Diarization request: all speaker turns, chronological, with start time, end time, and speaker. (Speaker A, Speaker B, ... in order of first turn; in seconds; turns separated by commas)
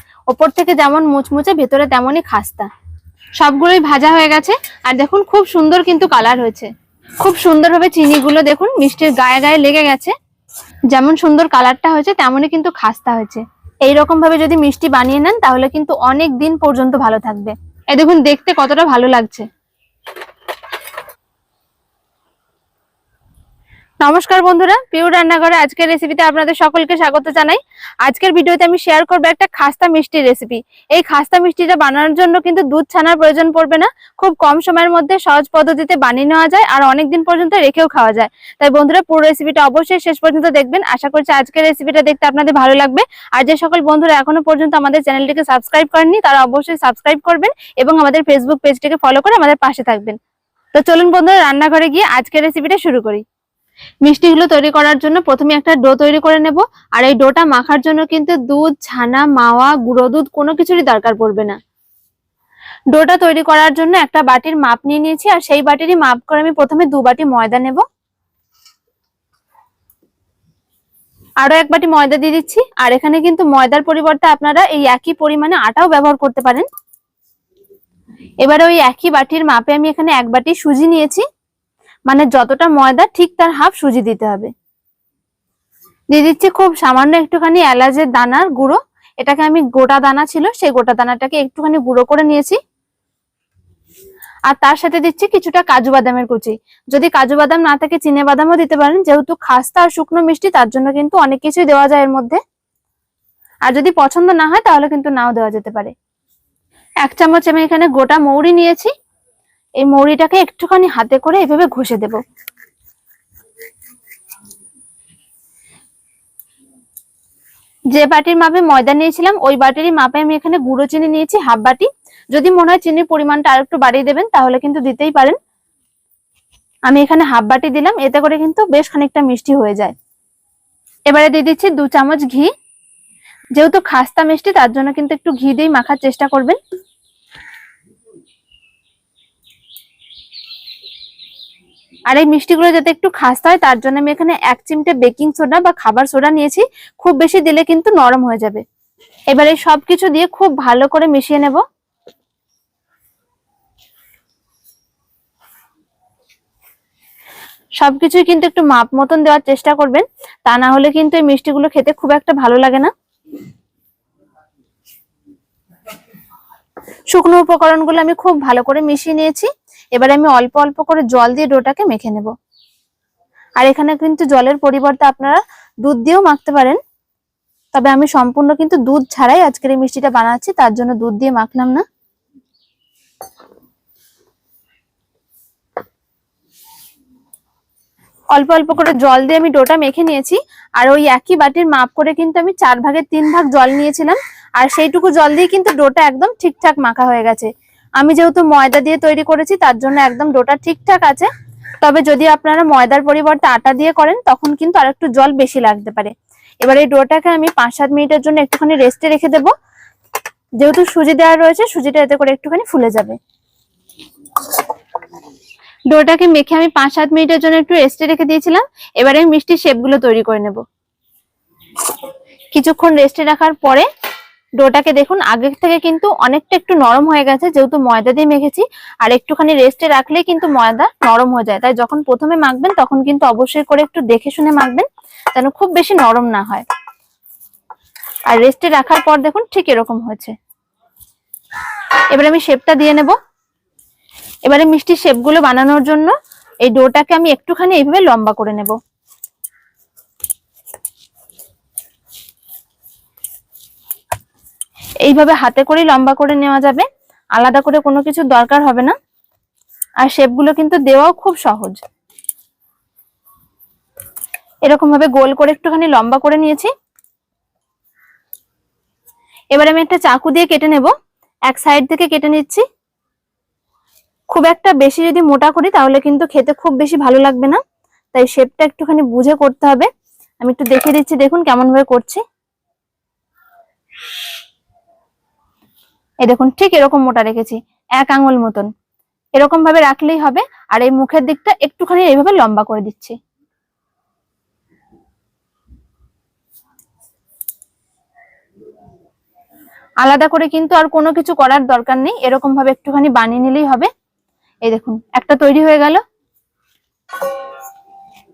Speaker A: 0.3-2.7, Speaker A: 3.4-6.7, Speaker A: 7.2-10.1, Speaker A: 10.9-19.4, Speaker A: 24.0-50.2, Speaker A: 50.7-53.2, Speaker A: 54.0-61.5, Speaker A: 62.9-67.8, Speaker A: 71.4-76.7, Speaker A: 78.4-81.2, Speaker A: 82.1-84.5, Speaker A: 86.1-92.6, Speaker A: 94.5-102.4, Speaker A: 103.7-105.9, Speaker A: 107.0-108.9, Speaker A: 109.8-112.2, Speaker A: 117.9-125.4, Speaker A: 126.9-129.9, Speaker A: 131.1-132.5, Speaker A: 133.6-136.6, Speaker A: 142.1-148.6, Speaker A: 149.3-151.6, Speaker A: 157.8-162.9, Speaker A: 167.1-172.3, Speaker A: 173.6-176.8, Speaker A: 177.7-181.8, Speaker A: 188.3-201.3, Speaker A: 201.8-209.5, Speaker A: 210.6-213.2, Speaker A: 215.9-220.6, Speaker A: 222.5-223.8, Speaker A: 224.6-236.6, Speaker A: 238.3-240.3, Speaker A: 242.1-243.1, Speaker A: 244.4-248.7, Speaker A: 255.0-258.9, Speaker A: 260.0-261.8, Speaker A: 264.6-266.7, Speaker A: 269.5-270.9, Speaker A: 271.5-272.6, Speaker A: 274.3-277.6, Speaker A: 278.1-279.9, Speaker A: 280.4-282.2, Speaker A: 286.2-288.7, Speaker A: 289.4-293.1, Speaker A: 300.0-303.9, Speaker A: 304.6-306.0